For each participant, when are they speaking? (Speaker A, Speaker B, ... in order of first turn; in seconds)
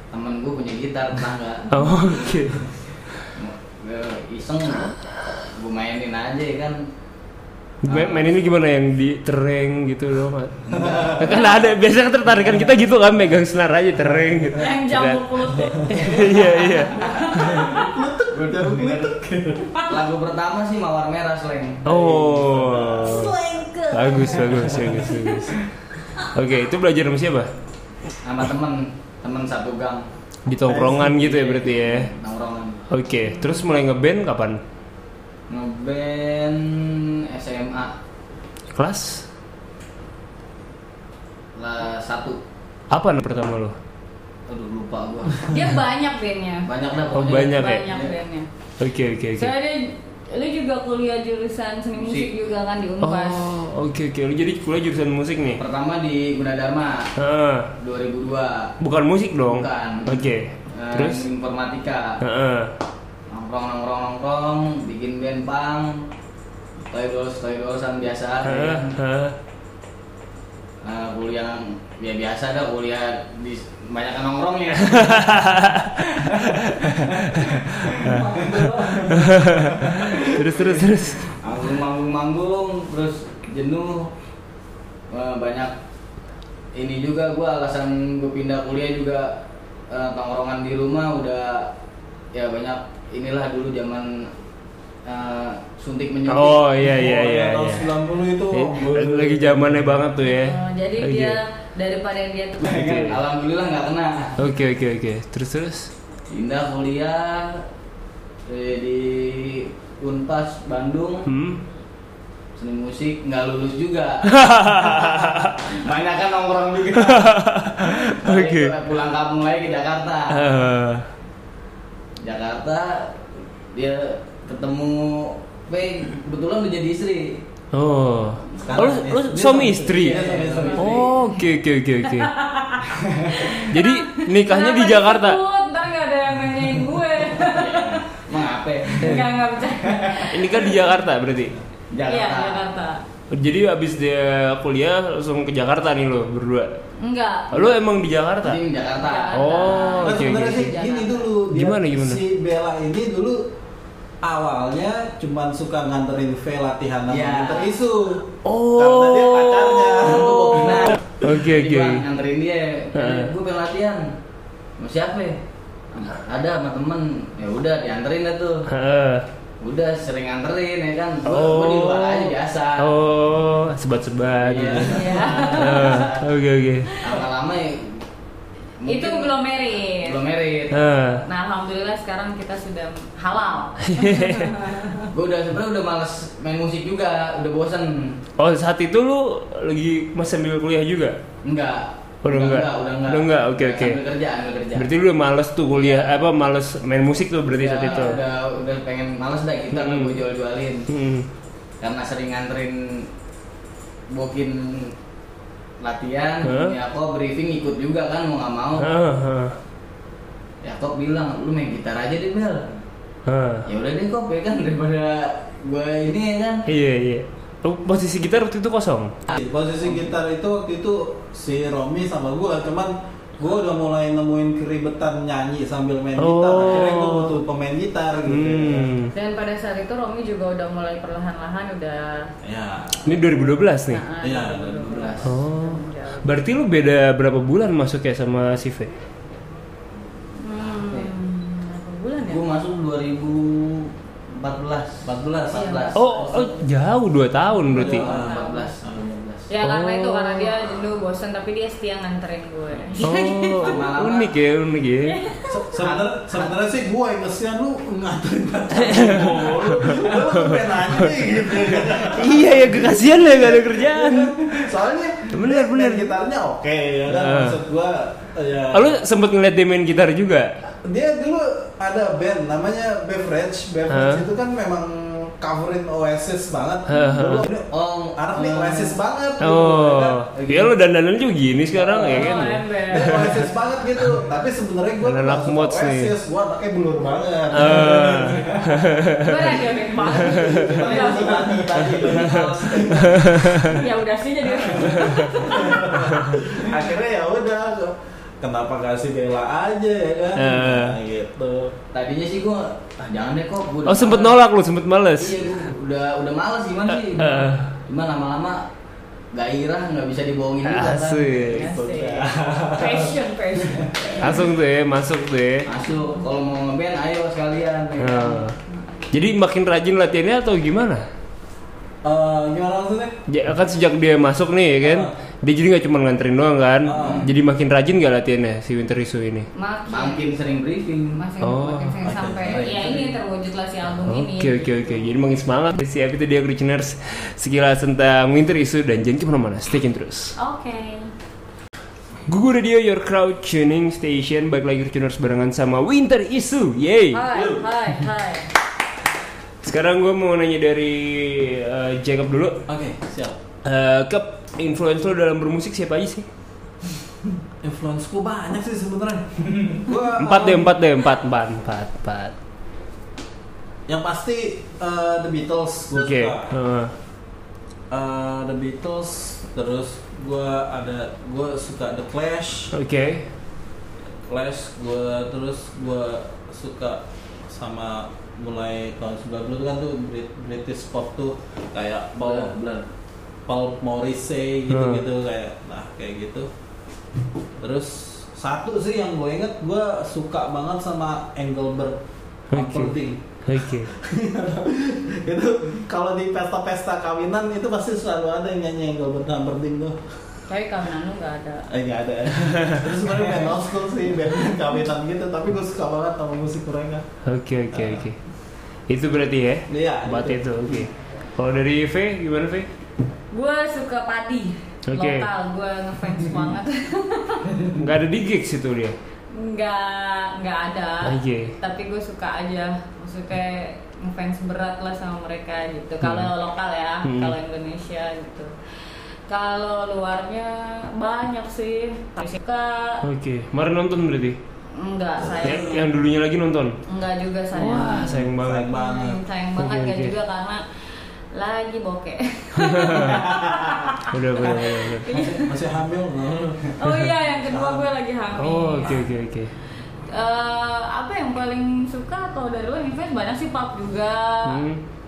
Speaker A: 0.1-2.4, 3.3-6.8, 7.8-8.3, 10.7-11.6, 18.3-19.1, 19.9-23.2, 28.2-30.1, 31.0-32.8, 35.5-37.9, 41.5-42.4, 44.5-45.6, 46.7-48.1, 52.0-52.3, 55.6-57.1, 57.8-58.7, 59.4-62.2, 63.3-66.0, 66.9-69.0, 70.8-79.2, 80.0-84.1, 85.1-85.7, 86.7-89.4, 89.9-91.7, 92.3-94.3, 95.0-96.7, 102.6-104.4, 106.3-107.6, 108.5-111.3, 112.5-120.4, 122.2-127.4, 129.8-131.1, 133.0-133.3, 137.3-140.3, 141.9-142.6, 148.4-149.8, 157.1-157.7, 160.1-164.1, 164.8-165.4, 165.9-168.6, 169.6-172.9, 174.3-176.3, 177.0-178.0, 178.8-180.8, 185.1-188.2, 191.4-194.9, 195.7-196.2, 197.5-200.9, 201.8-203.1, 204.1-204.9, 205.8-208.9, 210.6-212.7, 213.7-216.7, 219.3-220.1, 234.7-235.3, 240.8-241.1, 242.2-246.5, 247.7-249.5, 253.6-254.4, 255.8-256.5, 277.7-279.0, 280.4-280.7, 290.4-293.3, 301.9-304.4, 305.2-308.6, 309.3-312.2, 315.6-318.4, 327.0-327.3, 329.9-331.2, 332.6-333.1, 359.5-359.8, 382.2-382.9, 437.6-438.1
Speaker B: 1.7-2.6, 7.8-17.6, 21.8-23.3, 23.9-25.5, 26.3-27.5, 30.5-32.1, 32.9-34.6, 38.7-39.2, 42.9-43.7, 47.1-47.8, 48.8-49.5, 53.0-55.6, 57.2-57.7, 58.8-61.3, 62.2-62.7, 68.4-69.3, 74.8-78.2, 79.1-81.3, 96.3-97.9, 98.5-101.4, 102.7-103.2, 104.4-105.9, 111.2-111.6, 114.3-115.6, 117.0-118.7, 120.3-121.0, 127.7-130.2, 130.8-132.3, 133.6-135.4, 140.3-141.5, 143.3-146.7, 147.5-148.6, 149.3-150.7, 151.5-152.2, 158.4-162.0, 162.9-163.3, 168.7-169.2, 171.2-176.9, 180.7-181.2, 183.9-184.6, 188.4-191.2, 192.2-194.0, 194.8-198.2, 199.7-200.2, 200.9-201.2, 206.4-206.8, 208.8-209.5, 213.2-213.7, 216.7-219.2, 226.2-227.4, 228.2-229.1, 233.0-234.0, 235.2-238.9, 245.9-248.0, 249.6-250.6, 253.0-255.2, 258.7-264.4, 265.3-266.1, 267.1-267.6, 268.7-270.5, 273.9-274.2, 276.9-277.5, 279.4-283.4, 285.0-286.1, 287.5-290.6, 292.1-293.8, 294.9-295.3, 300.4-300.9, 303.9-305.4, 307.1-307.7, 310.6-311.6, 314.2-315.7, 318.0-318.5, 319.1-321.0, 323.3-329.5, 331.4-331.9, 334.1-340.3, 342.3-347.2, 349.6-352.6, 353.6-356.2, 360.1-362.3, 365.9-366.9, 372.7-373.3, 384.7-385.0, 392.5-393.9, 407.2-408.2, 408.9-412.7, 414.9-415.3, 417.7-418.9, 421.0-421.5, 426.0-426.3, 427.0-427.3, 433.0-434.4, 435.2-436.8, 437.5-438.7, 439.6-440.1, 442.6-443.4, 444.1-445.2, 448.4-449.5, 454.4-454.8
Speaker C: 10.8-11.1, 15.9-16.4, 17.3-19.8, 24.5-25.0, 30.6-31.1, 78.0-80.7, 96.8-100.0, 128.7-131.0, 150.0-153.5, 154.2-161.0, 219.3-228.9, 232.4-233.3, 234.2-235.1, 245.0-245.7, 247.7-248.4, 255.5-269.0, 270.8-280.3, 281.7-293.6, 294.5-301.7, 311.6-313.1, 322.0-323.1, 324.8-325.1, 326.8-327.3, 332.0-333.1, 347.3-347.6, 352.7-353.3, 357.6-360.8, 363.9-366.5, 367.9-372.7, 374.3-382.5, 383.5-386.5, 387.6-392.0, 392.5-400.1, 401.7-407.0, 407.7-408.0, 409.7-410.9, 438.1-439.2, 445.1-446.8, 447.3-447.9
Speaker D: 14.6-17.9, 23.0-24.4, 33.2-33.6, 45.5-48.5, 49.4-53.5, 100.2-102.8, 130.8-131.2, 132.1-138.2, 138.9-140.8, 142.0-143.0, 147.0-147.7, 149.0-151.3, 174.8-176.1, 176.9-177.2, 178.8-180.2, 181.2-185.1, 229.1-232.3, 233.9-236.3, 240.4-242.4, 245.5-246.4, 247.7-248.7, 249.5-253.8, 255.0-255.6, 282.1-283.2, 289.2-291.5, 293.6-296.1, 311.5-314.3, 315.9-316.2, 318.2-319.1, 329.5-330.3, 331.1-335.2, 340.4-341.1, 347.1-348.5, 400.5-401.7, 413.3-417.6, 419.3-428.5, 429.3-433.0, 434.7-435.9, 436.9-440.6, 441.3-445.5, 446.8-449.1, 450.1-454.6